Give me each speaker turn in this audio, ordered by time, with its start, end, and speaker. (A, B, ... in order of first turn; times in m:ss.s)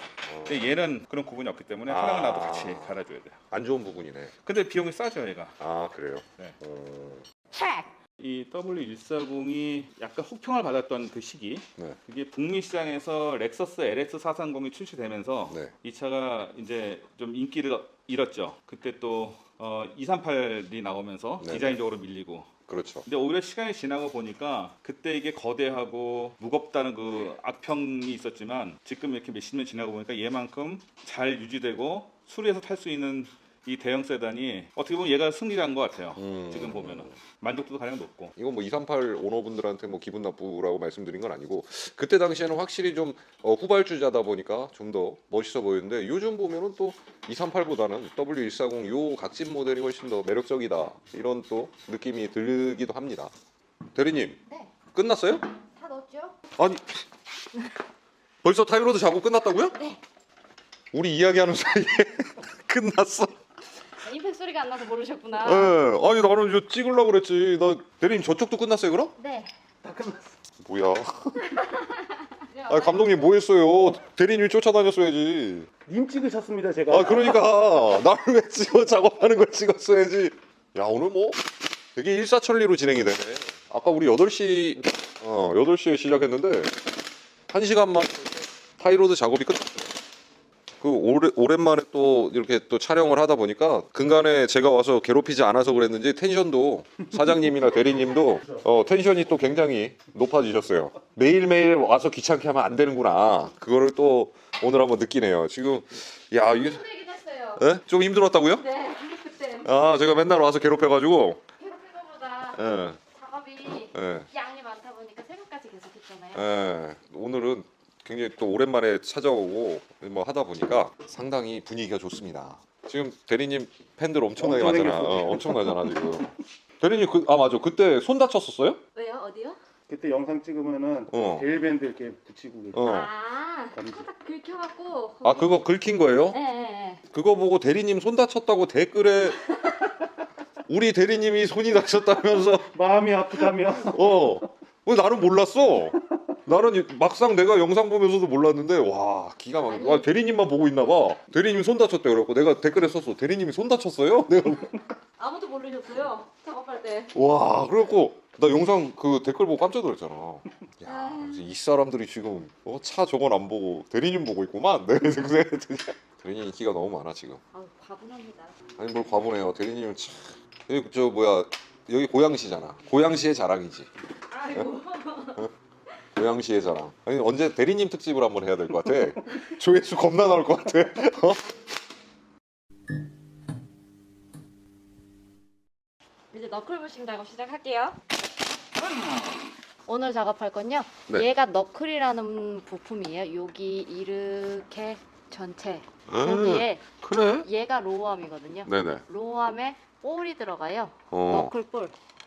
0:00.2-0:00.7 A
0:00.4-0:03.4 B
0:01.9-0:03.0 A
0:03.5-0:04.3 A
0:04.4-0:05.6 B
0:05.6-0:07.2 A
0:08.2-0:22.5 B
0:21.4-0:21.8 A
0:22.7-0:23.1 A
0:23.1-0:38.4 B
0:36.2-0:37.2 A
0:38.4-0:53.3 A
0:54.0-0:54.4 A
0:54.5-0:54.7 C
0:54.9-0:55.4 A
0:55.7-0:56.4 C
0:56.6-0:57.0 A
0:58.4-0:59.8 A
0:59.7-1:00.0 C
1:00.9-1:03.4 A
1:04.0-1:05.7 C
1:05.4-1:09.1 A
1:09.2-1:09.5 C
1:09.8-1:10.4 D
1:10.6-1:11.4 A
1:11.6-1:13.3 C
1:12.7-1:15.7 A
1:15.9-1:17.5 D
1:16.9-1:26.8 A
1:27.5-1:30.0 A
1:30.8-1:46.8 A
1:46.5-1:47.6 C
1:47.6-1:48.7 A
1:48.6-1:49.7 C
1:49.6-1:51.4 A
1:51.6-1:56.5 C
1:52.5-1:53.0 A
1:53.9-1:54.3 A
1:56.4-2:06.3 A
2:04.4-2:06.2 D
2:06.8-2:08.8 A
2:09.0-2:09.6 C
2:09.9-2:13.0 D
2:11.1-2:11.5 A
2:12.7-2:13.1 A
2:12.8-2:15.6 C
2:13.8-2:14.0 D
2:15.2-2:16.4 A
2:16.3-2:17.0 C
2:17.1-2:19.5 A
2:19.5-2:19.9 C
2:20.7-2:22.7 A
2:22.7-2:24.4 D
2:23.9-2:34.8 A
2:29.7-2:30.1 C
2:35.2-2:37.1 C
2:37.1-2:47.4 A
2:40.8-2:41.5 C
2:47.5-2:48.6 C
2:48.8-2:53.9 A
2:54.3-2:55.5 C
2:56.2-3:01.4 A
3:06.3-3:08.0 C
3:09.9-3:16.9 C
3:16.1-3:17.5 A
3:17.4-3:22.0 C
3:18.7-3:19.0 A
3:21.1-3:21.5 A